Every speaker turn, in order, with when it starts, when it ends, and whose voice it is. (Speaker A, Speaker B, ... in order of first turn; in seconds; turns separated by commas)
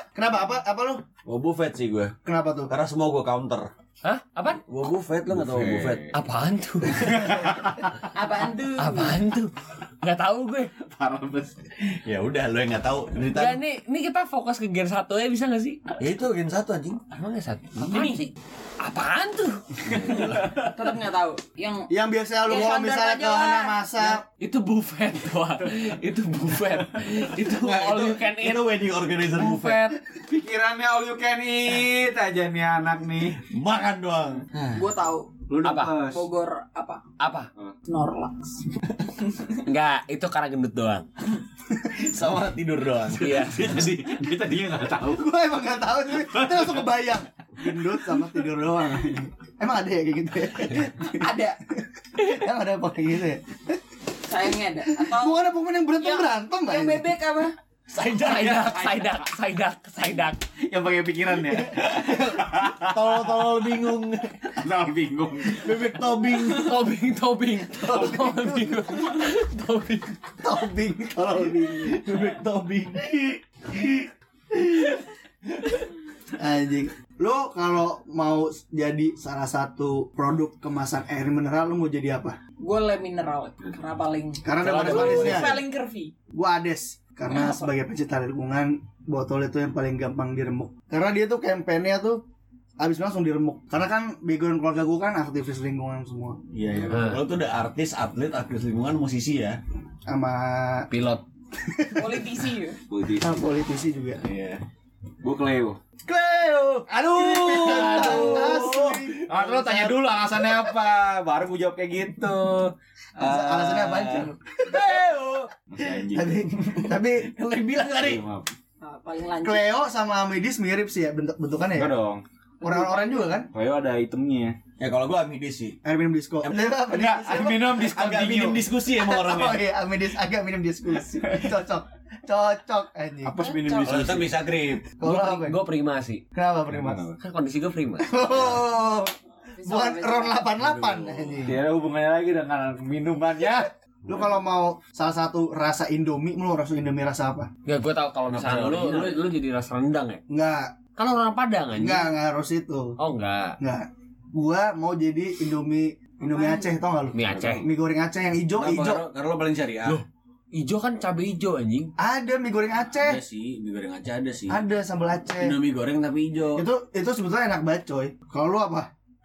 Speaker A: 0.1-1.0, Speaker B: 1.2-2.2, Speaker A: 2.2-2.7, Speaker B: 2.7-3.7, Speaker C: 4.0-4.6, Speaker B: 4.7-6.1, Speaker D: 5.3-6.2, Speaker C: 6.1-7.3, Speaker D: 6.9-7.8, Speaker E: 8.1-9.2, Speaker C: 8.8-10.7, Speaker D: 10.8-11.8, Speaker B: 12.0-13.6, Speaker C: 13.3-15.8, Speaker B: 16.0-17.0, Speaker C: 17.1-20.4, Speaker E: 17.8-18.2, Speaker B: 19.8-20.6, Speaker D: 20.1-20.7, Speaker E: 20.5-21.9, Speaker A: 21.9-24.2, Speaker E: 22.4-23.7, Speaker C: 24.4-30.0, Speaker B: 27.4-29.9, Speaker D: 30.2-33.4, Speaker B: 33.4-34.8, Speaker E: 34.7-35.3, Speaker D: 35.5-36.2, Speaker B: 35.5-35.9, Speaker C: 35.6-36.0, Speaker E: 36.1-37.0, Speaker C: 37.2-37.5, Speaker E: 37.9-38.7, Speaker C: 39.6-41.0, Speaker B: 41.9-43.8, Speaker C: 43.1-43.8, Speaker D: 43.5-45.2, Speaker A: 45.1-53.8, Speaker D: 46.2-46.7, Speaker E: 51.1-51.6, Speaker E: 54.3-55.4, Speaker A: 54.9-57.0, Speaker E: 56.0-57.5, Speaker D: 58.0-59.2, Speaker B: 58.0-58.3, Speaker C: 58.2-60.4, Speaker D: 60.6-63.3, Speaker B: 61.5-64.6, Speaker D: 64.6-65.8, Speaker B: 65.4-66.8, Speaker C: 66.4-70.3, Speaker A: 67.8-68.8, Speaker A: 70.4-75.0, Speaker A: 76.3-82.4, Speaker E: 82.6-86.1, Speaker A: 84.4-85.6, Speaker C: 84.6-85.4, Speaker A: 86.3-92.2, Speaker E: 87.3-87.7, Speaker A: 92.8-96.4, Speaker B: 96.5-99.6, Speaker C: 96.9-97.2, Speaker A: 100.1-100.9, Speaker C: 100.9-101.2, Speaker A: 101.6-102.2, Speaker E: 101.9-102.8, Speaker D: 102.9-103.4, Speaker A: 103.2-104.2, Speaker B: 104.2-104.6, Speaker D: 105.2-105.8, Speaker B: 106.1-109.2, Speaker A: 106.9-110.0, Speaker D: 107.2-112.7, Speaker B: 113.2-115.5, Speaker A: 113.2-114.8, Speaker D: 114.7-116.7, Speaker A: 116.0-117.3, Speaker B: 117.2-118.2, Speaker D: 117.9-118.5, Speaker E: 118.8-119.7, Speaker A: 119.4-121.9, Speaker D: 121.7-122.2, Speaker A: 122.6-123.5, Speaker E: 122.7-123.1, Speaker D: 123.4-124.6, Speaker B: 124.8-125.8, Speaker A: 125.8-127.8, Speaker D: 126.9-128.7, Speaker B: 127.8-129.6, Speaker A: 128.9-133.3, Speaker D: 133.2-134.4, Speaker E: 133.4-134.1, Speaker B: 133.8-134.8, Speaker A: 135.0-135.6, Speaker C: 135.0-136.2, Speaker A: 136.3-137.0, Speaker D: 136.7-137.2, Speaker C: 137.2-138.2, Speaker A: 138.0-141.6, Speaker E: 139.5-140.4, Speaker B: 140.6-141.4, Speaker D: 141.4-143.7, Speaker A: 144.1-147.5, Speaker C: 147.7-150.2, Speaker B: 148.3-149.2, Speaker A: 150.3-150.7, Speaker C: 151.0-152.1, Speaker A: 151.7-153.0, Speaker C: 153.0-153.6, Speaker A: 153.6-159.0, Speaker E: 156.3-156.7, Speaker C: 157.1-157.7, Speaker B: 157.2-157.6, Speaker B: 158.5-160.0, Speaker C: 159.8-161.9, Speaker A: 162.0-163.2, Speaker B: 163.0-164.6, Speaker A: 164.5-165.6, Speaker B: 165.4-166.6, Speaker A: 166.5-168.9